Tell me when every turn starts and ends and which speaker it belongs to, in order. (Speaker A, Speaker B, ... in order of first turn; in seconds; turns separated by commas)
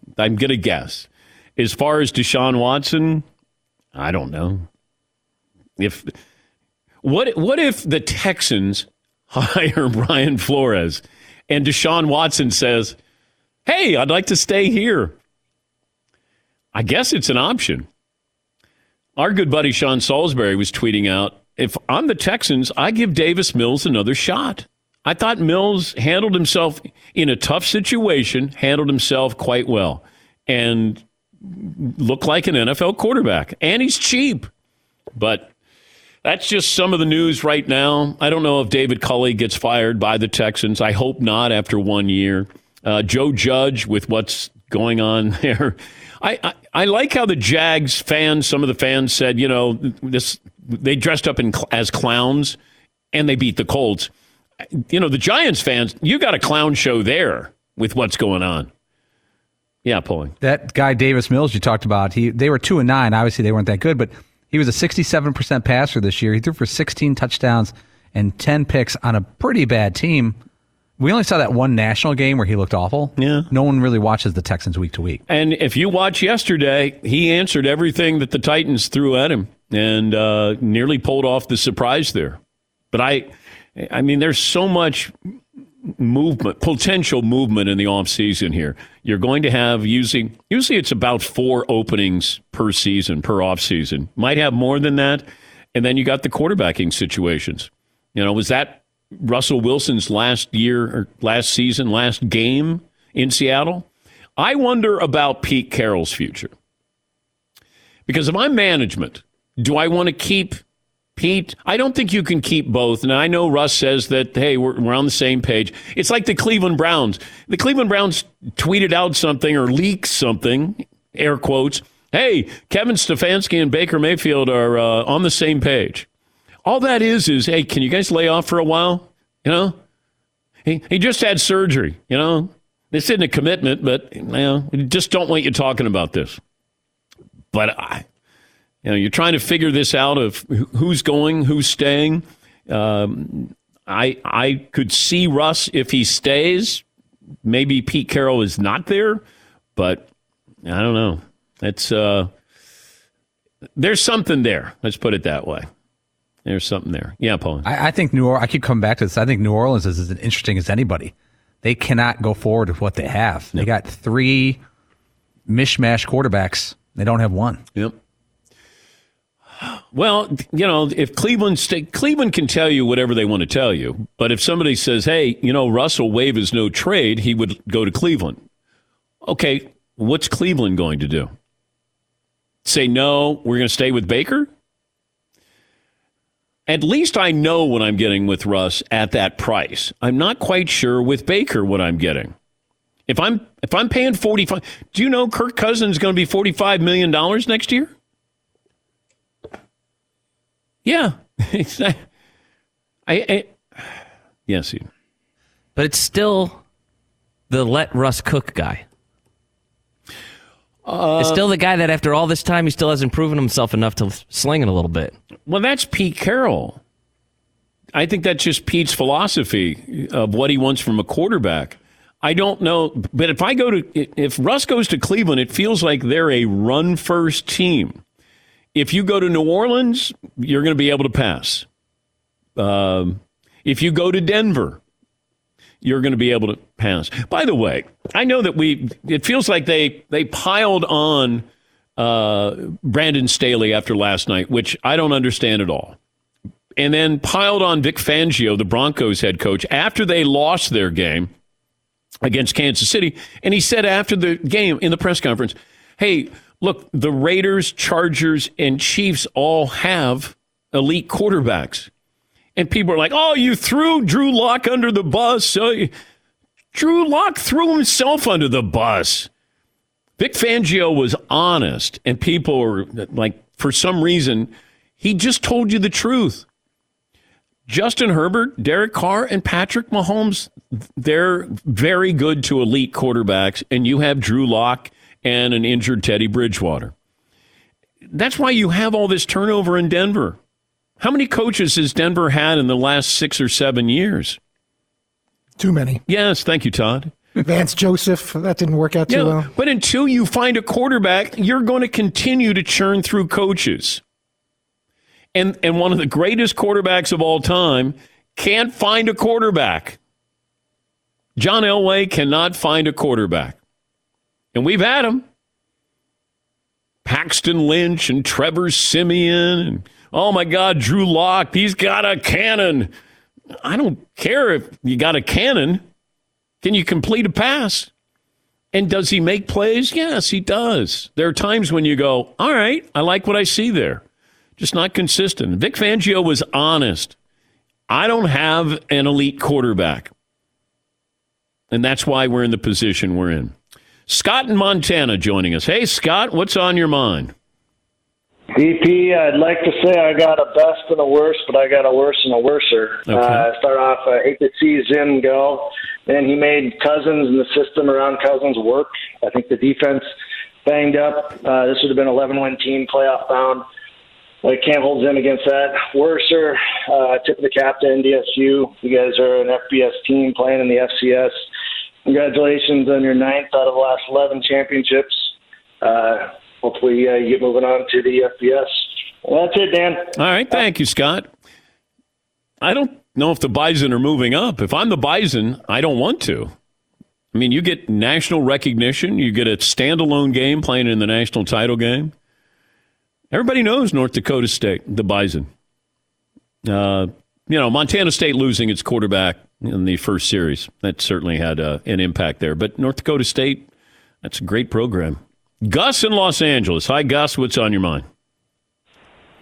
Speaker A: 0.2-3.2, Speaker A: 4.0-4.7, Speaker A: 5.8-6.1, Speaker A: 7.0-13.0, Speaker A: 13.7-15.2, Speaker A: 16.7-17.9, Speaker A: 19.2-34.5, Speaker A: 35.1-35.5, Speaker A: 36.2-52.6, Speaker A: 53.1-54.1, Speaker A: 54.7-58.7, Speaker A: 59.9-60.3, Speaker B: 60.4-70.4, Speaker B: 71.0-75.2, Speaker A: 73.2-73.5, Speaker A: 75.3-82.4, Speaker A: 82.9-85.1, Speaker A: 85.8-106.5, Speaker A: 108.1-110.6, Speaker A: 111.2-126.1, Speaker A: 126.7-129.8, Speaker A: 130.7-136.4, Speaker A: 137.5-138.1, Speaker A: 138.8-146.8, Speaker A: 147.4-149.2, Speaker A: 149.8-150.1, Speaker A: 150.7-152.3, Speaker A: 153.8-155.7, Speaker A: 156.4-157.7, Speaker B: 157.6-164.6, Speaker B: 165.5-167.6, Speaker A: 169.8-178.4, Speaker A: 179.2-181.3, Speaker A: 182.7-184.5, Speaker A: 186.7-192.3, Speaker A: 193.1-197.9, Speaker A: 200.8-202.0, Speaker A: 203.1-203.9, Speaker A: 204.5-204.9, Speaker C: 205.8-206.6, Speaker C: 207.5-208.8, Speaker A: 210.8-211.4, Speaker C: 211.2-215.2, Speaker A: 215.5-216.8, Speaker A: 217.9-228.0, Speaker A: 228.7-231.7, Speaker A: 232.6-234.8, Speaker A: 235.8-241.4, Speaker A: 242.0-246.0, Speaker A: 246.8-251.3, Speaker A: 252.2-261.9, Speaker A: 262.6-265.9, Speaker A: 266.7-269.3, Speaker A: 270.2-276.5, Speaker A: 277.7-286.9, Speaker A: 288.1-290.4, Speaker A: 291.0-294.4, Speaker D: 295.6-296.0, Speaker A: 296.1-297.1, Speaker D: 297.4-299.5, Speaker A: 299.1-304.0, Speaker A: 305.4-310.0, Speaker A: 311.4-313.6, Speaker A: 314.5-315.2, Speaker A: 317.1-322.9, Speaker A: 323.6-325.8, Speaker A: 326.6-327.9, Speaker A: 328.7-334.0, Speaker A: 334.6-337.1, Speaker A: 337.9-340.1, Speaker A: 341.7-343.5, Speaker A: 344.1-347.3, Speaker E: 348.5-360.1, Speaker A: 353.1-353.4, Speaker E: 360.6-363.6, Speaker E: 364.4-371.4, Speaker E: 372.1-375.3, Speaker E: 375.8-380.1, Speaker A: 380.1-381.3, Speaker A: 382.6-386.5, Speaker A: 387.3-392.1, Speaker A: 393.3-395.5, Speaker A: 396.6-403.7, Speaker A: 404.2-408.1